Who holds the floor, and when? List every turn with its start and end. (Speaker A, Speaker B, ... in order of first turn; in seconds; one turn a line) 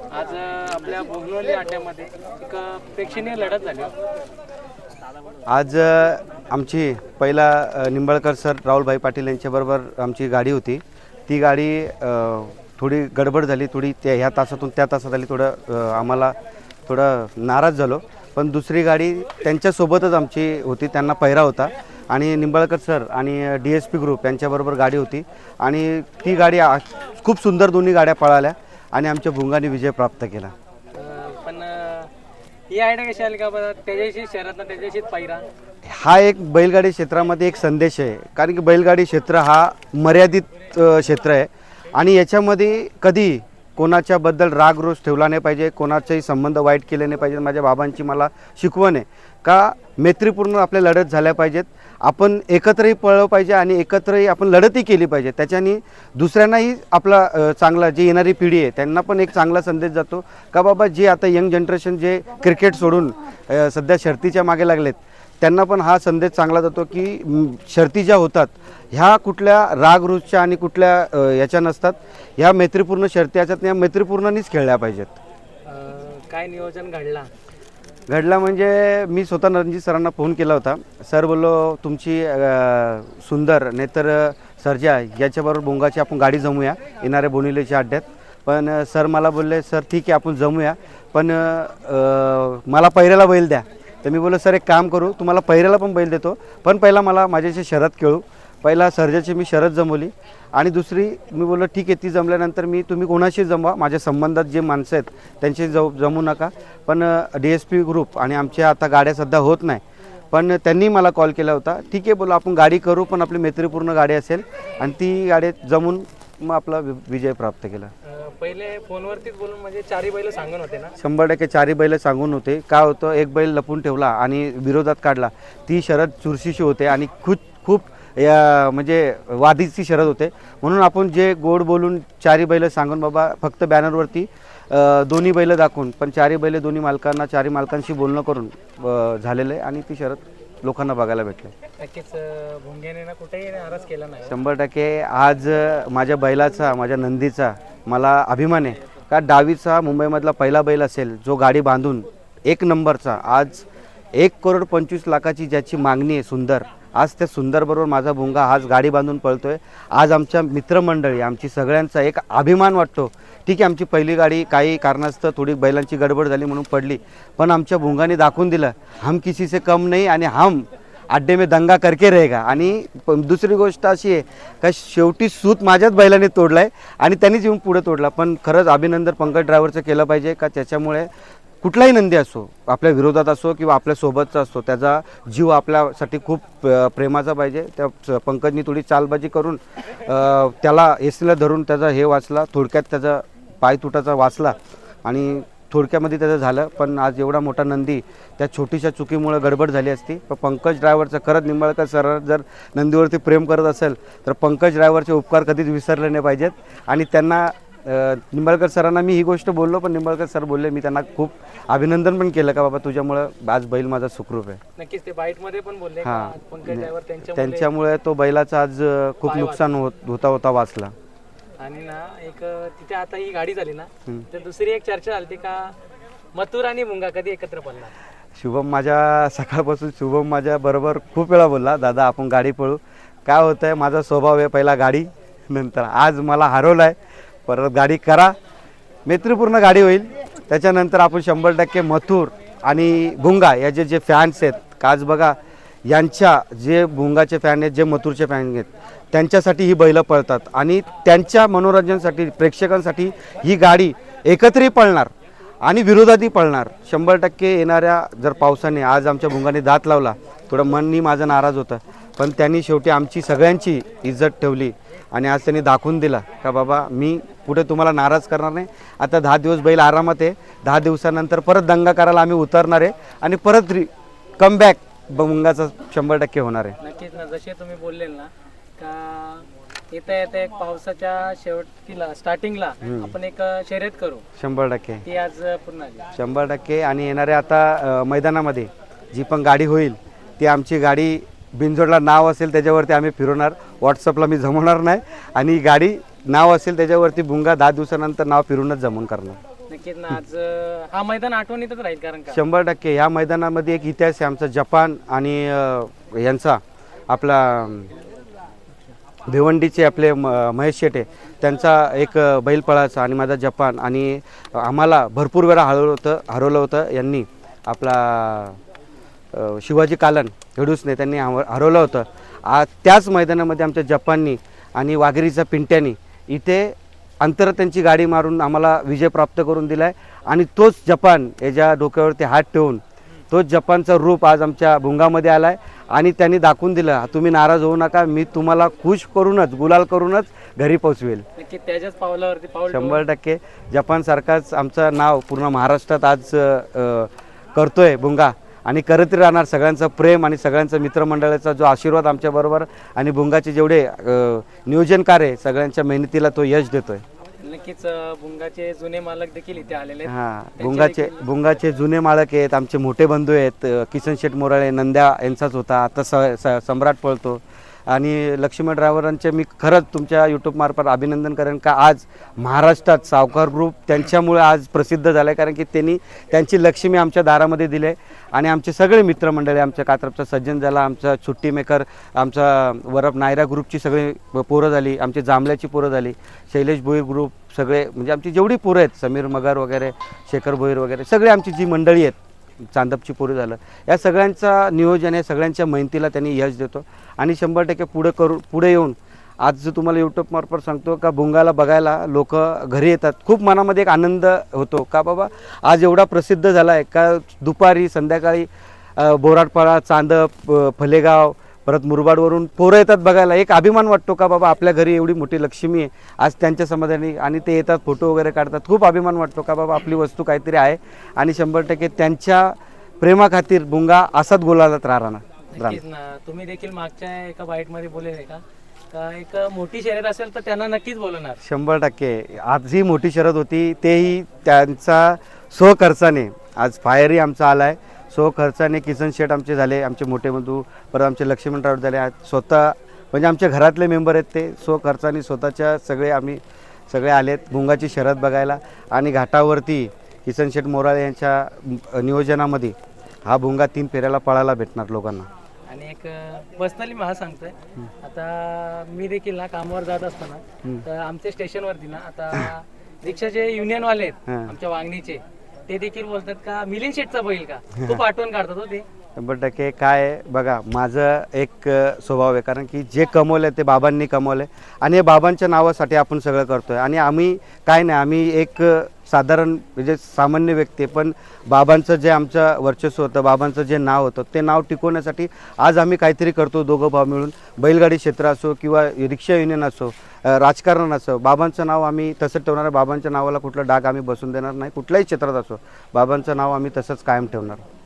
Speaker A: 0.1-3.9
Speaker B: 5.5-16.3
Speaker B: 16.9-30.5
Speaker A: 30.9-32.1
Speaker A: 32.7-35.5
Speaker B: 35.8-75.2
Speaker A: 75.7-77.3
Speaker B: 78.1-117.9
Speaker A: 118.0-121.0
Speaker B: 121.0-141.5
Speaker A: 141.8-144.4
Speaker B: 144.3-181.1
Speaker B: 181.6-214.6
Speaker A: 214.8-217.7
Speaker B: 216.0-220.9
Speaker A: 219.3-219.7
Speaker A: 221.6-225.8
Speaker A: 226.3-227.9
Speaker B: 228.4-237.0
Speaker B: 237.5-238.3
Speaker B: 239.1-255.1
Speaker B: 255.7-276.8
Speaker A: 276.8-284.2
Speaker B: 282.8-283.1
Speaker B: 284.4-285.0
Speaker A: 285.0-286.1
Speaker B: 286.1-299.4
Speaker A: 299.7-302.4
Speaker B: 302.3-307.9
Speaker B: 309.3-318.6
Speaker B: 319.3-341.2
Speaker A: 341.4-343.0
Speaker B: 342.7-357.0
Speaker A: 357.4-361.3
Speaker B: 360.1-425.8
Speaker A: 425.5-431.4
Speaker B: 431.4-452.8
Speaker B: 453.3-455.3
Speaker A: 455.7-468.9
Speaker B: 464.3-464.5
Speaker B: 467.8-468.0
Speaker B: 469.2-497.6